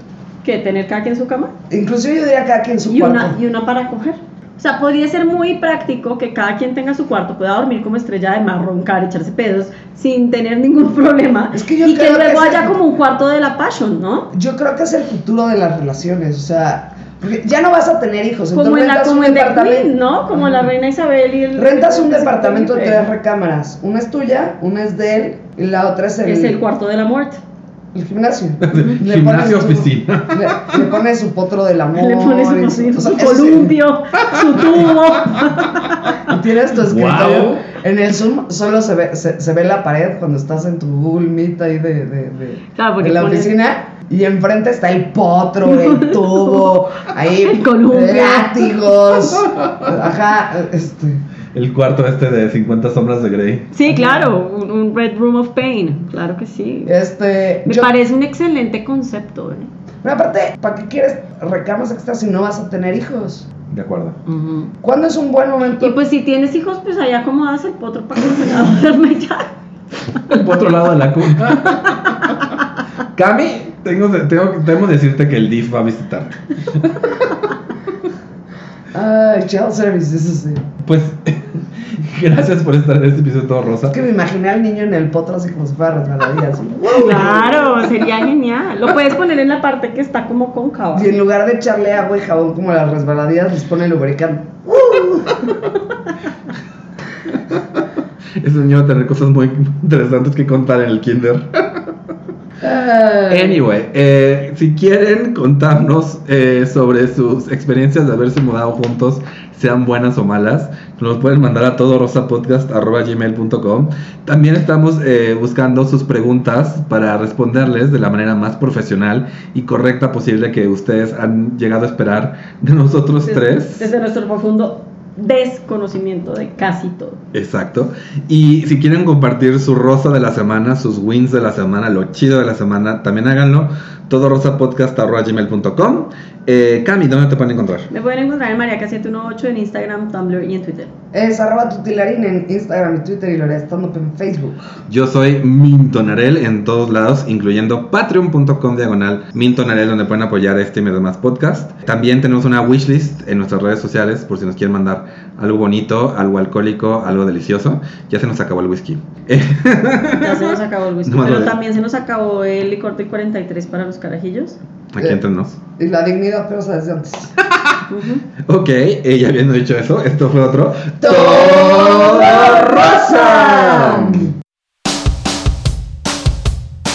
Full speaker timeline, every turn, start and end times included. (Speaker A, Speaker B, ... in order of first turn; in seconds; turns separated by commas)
Speaker A: 0.4-1.5, Speaker B: 1.7-3.4, Speaker A: 2.9-14.3, Speaker B: 11.5-12.8, Speaker B: 14.3-20.6, Speaker A: 18.5-23.1, Speaker B: 21.5-26.6, Speaker A: 26.2-27.4, Speaker B: 27.9-33.8, Speaker C: 28.6-30.9, Speaker A: 32.0-36.3, Speaker B: 36.2-51.2, Speaker C: 36.9-37.6, Speaker A: 42.8-43.5, Speaker A: 45.6-46.8, Speaker A: 47.4-49.4, Speaker C: 51.5-53.7, Speaker A: 53.7-56.9, Speaker B: 53.8-54.3, Speaker B: 56.9-57.9, Speaker A: 57.6-59.7, Speaker B: 60.0-63.5, Speaker C: 63.7-64.2, Speaker A: 64.3-64.7, Speaker B: 64.8-66.0, Speaker A: 65.8-69.5, Speaker C: 70.3-72.6, Speaker C: 73.2-77.2, Speaker B: 78.9-80.7, Speaker C: 80.8-84.0, Speaker B: 83.9-87.8, Speaker A: 86.9-91.1, Speaker B: 90.9-95.5, Speaker C: 98.4-101.9, Speaker B: 102.6-103.6, Speaker C: 103.3-123.9, Speaker A: 123.2-127.2, Speaker C: 127.3-137.9, Speaker A: 137.9-140.9, Speaker B: 141.1-144.6, Speaker C: 144.9-161.6, Speaker A: 160.2-164.6, Speaker C: 164.9-165.6, Speaker B: 165.8-167.3, Speaker C: 167.4-167.8, Speaker A: 167.9-168.2, Speaker C: 168.4-174.3, Speaker B: 171.0-174.3, Speaker A: 171.6-172.4